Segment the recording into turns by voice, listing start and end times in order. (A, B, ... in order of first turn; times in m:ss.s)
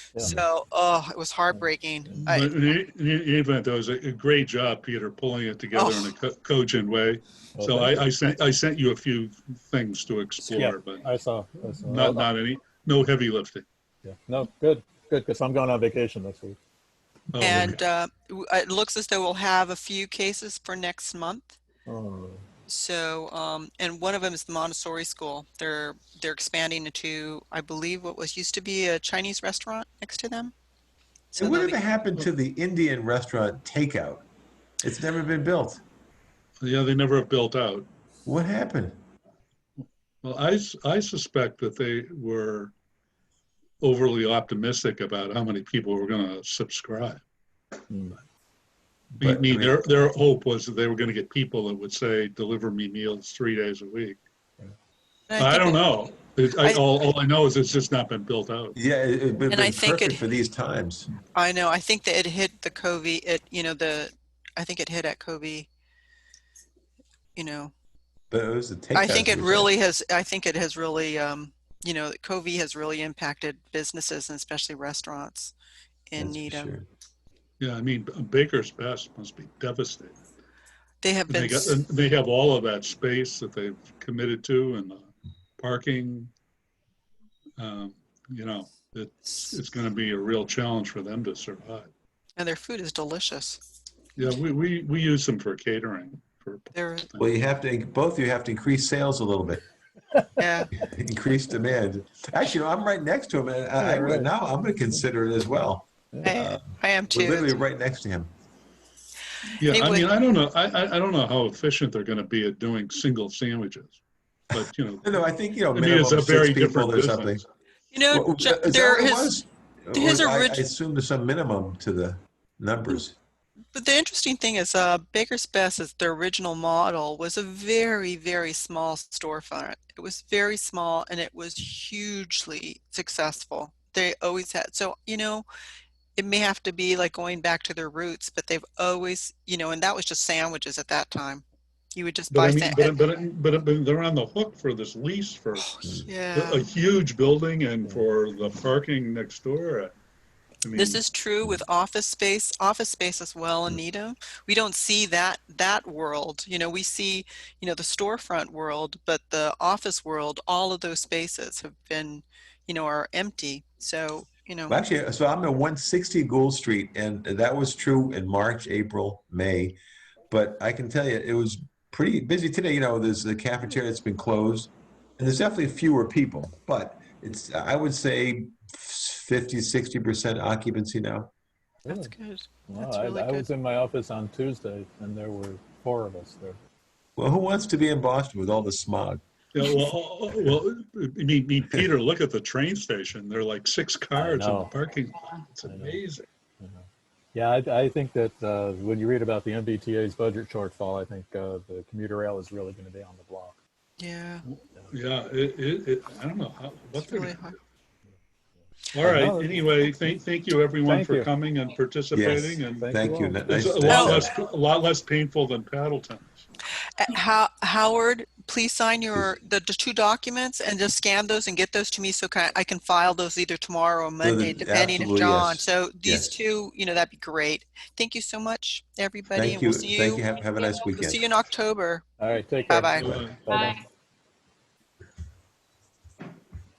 0:00.2-0:02.6 A
0:01.5-0:02.2 B
0:02.2-0:11.1 C
0:05.7-0:06.1 A
0:07.6-0:08.0 B
0:10.4-0:12.3 B
0:11.8-0:13.6 C
0:14.0-0:16.6 B
0:17.3-0:17.8 C
0:17.4-0:21.6 A
0:21.8-0:22.4 B
0:22.7-0:30.5 A
0:31.3-0:31.8 A
0:31.4-0:34.2 D
0:34.8-0:35.8 D
0:36.6-0:37.9 C
0:38.2-0:39.0 D
0:40.2-0:42.7 C
0:43.8-0:47.2 C
0:47.9-0:48.2 B
0:49.1-0:54.2 C
0:49.2-0:49.8 D
0:55.3-0:55.8 A
0:55.4-0:58.8 C
0:58.7-1:01.1 D
0:59.5-1:00.2 A
1:01.3-1:05.7 A
1:07.4-1:07.7 A
1:08.3-1:09.7 D
1:08.9-1:15.5 A
1:16.1-1:16.7 A
1:16.2-1:16.8 D
1:17.6-1:20.2 C
1:21.0-1:21.8 A
1:21.3-1:26.3 C
1:27.6-1:31.9 C
1:32.4-1:33.6 A
1:34.2-1:37.4 C
1:36.7-1:37.1 A
1:37.2-1:39.6 D
1:40.4-1:40.7 A
1:40.7-1:48.3 D
1:43.8-1:44.3 B
1:46.2-1:47.6 A
1:49.6-1:54.0 C
1:49.6-1:50.1 A
1:54.5-1:55.2 C
1:54.6-1:57.4 D
1:55.7-1:57.4 C
1:57.9-1:59.4 A
1:58.1-2:03.2 D
1:59.9-2:00.6 A
2:03.7-2:15.4 A
2:16.2-2:23.1 A
2:22.3-2:25.7 C
2:25.6-2:26.6 A
2:25.8-2:26.1 D
2:26.3-2:29.9 C
2:30.6-2:31.0 C
2:30.7-2:44.8 A
2:44.7-2:49.8 D
2:50.3-3:01.3 D
3:01.8-3:02.1 B
3:01.9-3:03.5 A
3:02.7-3:06.6 B
3:07.2-3:09.2 D
3:09.5-3:16.2 C
3:14.2-3:14.7 B
3:15.6-3:16.0 B
3:16.6-3:23.6 B
3:24.0-3:24.4 A
3:24.4-3:27.4 C
3:26.9-3:27.6 A
3:28.9-3:32.9 C
3:29.0-3:29.8 B
3:30.8-3:31.3 B
3:32.1-3:34.3 D
3:32.7-3:33.4 B
3:33.5-3:36.4 C
3:33.9-3:34.2 A
3:37.0-3:52.0 A
3:44.2-3:46.4 D
3:49.3-3:51.2 D
3:52.2-3:53.8 B
3:52.6-3:53.2 A
3:53.0-3:53.4 C